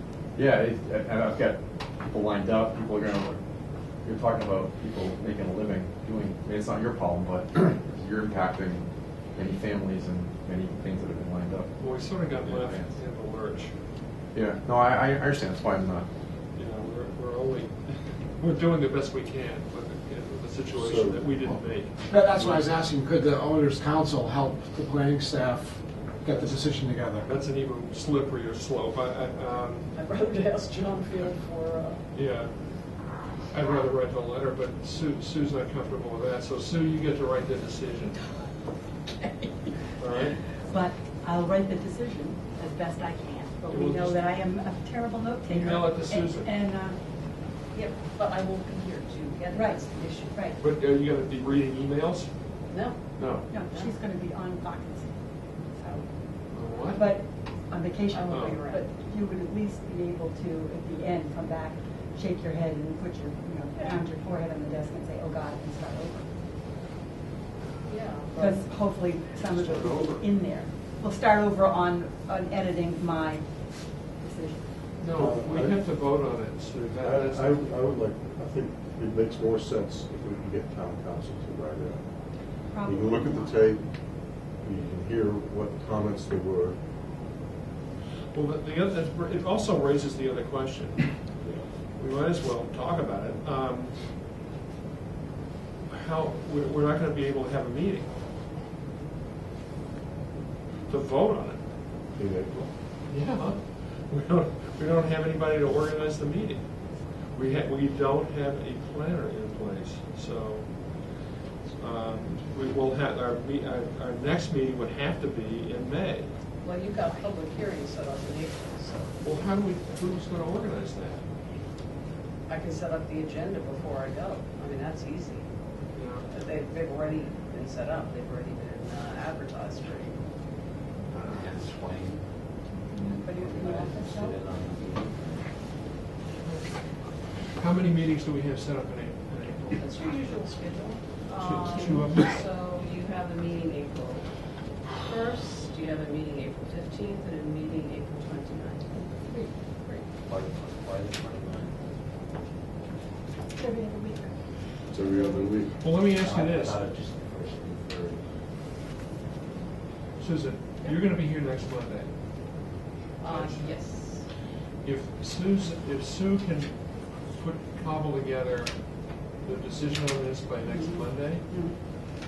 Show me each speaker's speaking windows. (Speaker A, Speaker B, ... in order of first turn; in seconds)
Speaker A: 0.3-3.4, 4.0-11.7, 12.4-12.9, 14.3-16.1
Speaker B: 11.8-13.7, 16.6-22.5, 26.3-26.6, 27.2-29.9, 32.1-38.2, 40.0-40.4, 43.7-44.2, 45.5-46.5, 50.6-52.3, 53.1-53.5, 56.5-57.1, 69.5-70.2, 75.0-77.7, 88.3-91.3, 91.9-94.1, 95.9-98.1, 100.9-101.6, 103.1-116.3, 119.2-121.2, 125.9-126.2, 136.4-139.9, 141.3-142.4, 155.7-156.8, 160.2-162.1, 163.2-163.7, 164.8-171.5
Speaker C: 20.8-21.6, 75.1-75.8, 77.0-82.1, 82.8-83.8, 84.5-86.8, 91.4-91.7, 102.1-102.8, 154.9-155.8
Speaker D: 22.1-27.3
Speaker E: 29.9-32.0, 47.7-50.4, 52.7-53.9, 58.1-58.9, 67.9-68.6, 116.6-119.1, 122.5-125.5, 126.3-130.2, 139.7-149.1, 163.2-164.3
Speaker F: 39.2-39.7, 40.6-47.0, 49.5-50.6, 53.5-56.1, 56.9-66.3, 68.3-75.0, 82.7-83.8, 132.7-134.4, 149.0-149.5, 153.5-154.3, 170.6-171.8
Speaker G: 131.2-132.2, 133.4-135.4, 150.2-151.8, 156.0-158.2